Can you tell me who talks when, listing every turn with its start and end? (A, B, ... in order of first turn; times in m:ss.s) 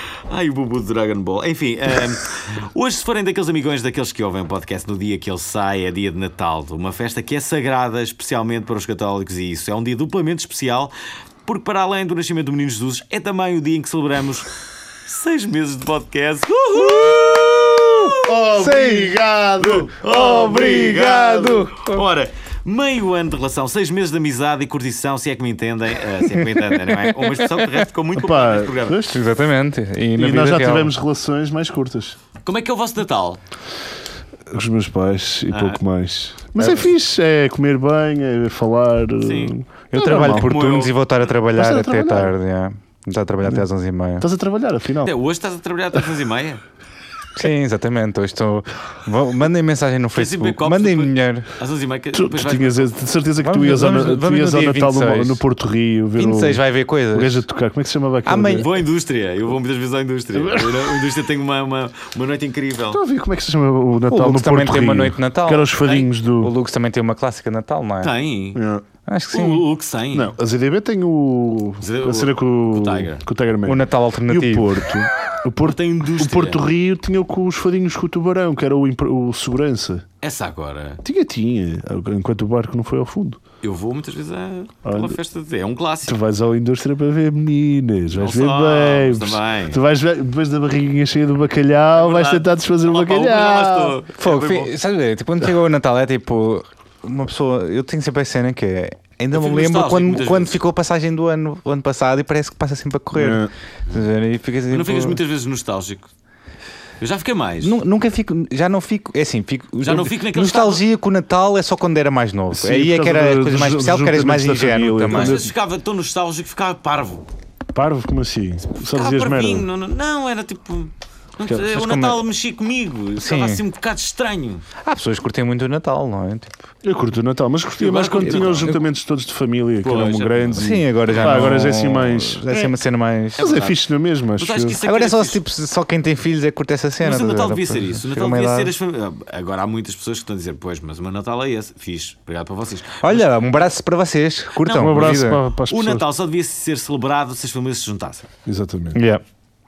0:00.3-0:10.9 A
0:11.4-0:14.5 A
0:15.0-0:19.0 A
0:17.1-0:21.8 B
0:18.6-0:19.1 C
0:19.6-0:29.1 A
0:26.4-0:27.8 C
0:28.1-0:29.2 B
0:29.1-0:30.9 C
0:30.2-0:32.2 B
0:32.4-0:33.4 A
0:34.5-0:40.9 B
0:35.5-0:35.8 A
0:39.2-0:39.5 A
0:39.9-0:44.3 C
0:40.3-0:40.9 A
0:41.5-0:42.3 B
0:44.2-0:45.1 B
0:45.0-0:46.6 A
0:47.3-0:51.5 C
0:50.1-0:52.9 A
0:52.1-0:58.7 B
0:53.4-0:55.4 C
0:56.2-0:57.4 C
0:58.2-0:58.7 C
0:58.6-1:03.0 A
1:00.3-1:01.0 B
1:02.9-1:06.5 B
1:04.1-1:08.1 C
1:08.0-1:08.6 A
1:08.5-1:08.8 B
1:09.1-1:09.6 C
1:09.3-1:10.3 A
1:10.1-1:20.0 B
1:11.8-1:13.2 A
1:13.6-1:14.8 C
1:15.6-1:16.6 A
1:20.2-1:21.0 A
1:21.0-1:23.4 B
1:23.6-1:26.2 A
1:24.8-1:25.2 B
1:26.0-1:34.0 B
1:28.1-1:29.8 A
1:31.9-1:34.7 A
1:34.2-1:45.2 C
1:39.3-1:40.6 A
1:43.1-1:43.5 B
1:44.7-1:46.1 A
1:47.0-1:47.8 A
1:47.6-1:55.4 C
1:49.8-1:50.8 A
1:52.5-1:55.5 B
1:55.1-1:57.2 A
1:57.7-1:59.7 B
1:58.8-2:04.6 A
2:01.6-2:02.2 C
2:03.2-2:03.6 C
2:04.8-2:06.6 C
2:06.8-2:12.7 B
2:07.8-2:08.7 A
2:08.5-2:08.8 C
2:09.8-2:11.6 A
2:10.6-2:13.6 C
2:13.4-2:14.8 B
2:13.4-2:13.8 A
2:14.4-2:15.4 A
2:14.8-2:18.7 C
2:17.0-2:23.2 A
2:23.0-2:25.4 C
2:24.6-2:28.3 A
2:24.7-2:26.1 B
2:28.4-2:29.0 B
2:28.9-2:29.2 C